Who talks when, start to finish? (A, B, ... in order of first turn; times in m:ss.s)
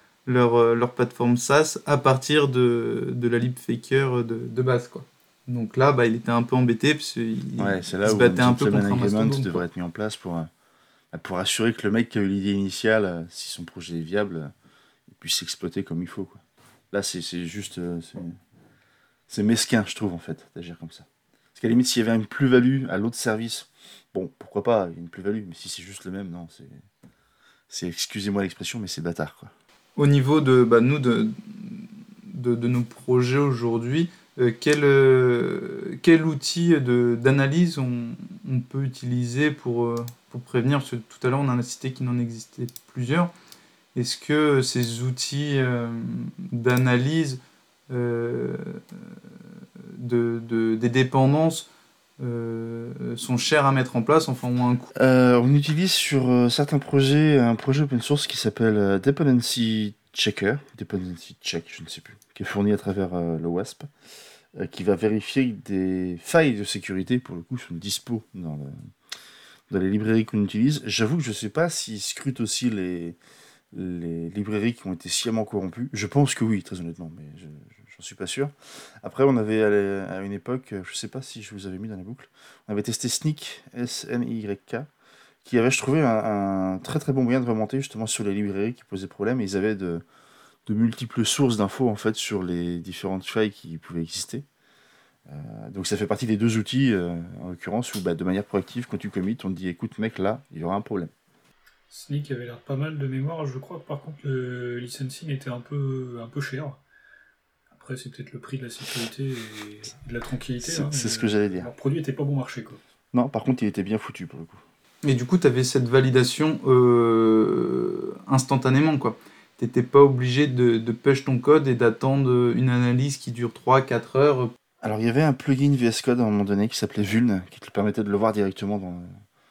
0:00.3-0:09.6 A
0:07.6-0:10.5 B
0:11.1-0:14.5 B
0:15.1-0:18.4 B
0:19.3-0:26.8 B
0:27.7-0:29.5 B
0:30.0-0:43.3 A
0:43.9-0:49.2 A
0:49.8-0:51.7 A
0:52.2-0:54.9 A
0:54.9-1:03.9 B
1:04.6-1:08.9 B
1:09.7-1:13.2 B
1:13.7-1:24.9 B
1:25.4-1:30.0 B
1:30.7-1:34.4 B
1:35.3-1:41.1 B
1:41.9-1:46.8 C
1:47.7-1:52.8 C
1:50.6-1:51.7 B
1:53.1-1:54.6 B
1:55.0-2:04.5 A
2:04.8-2:09.1 B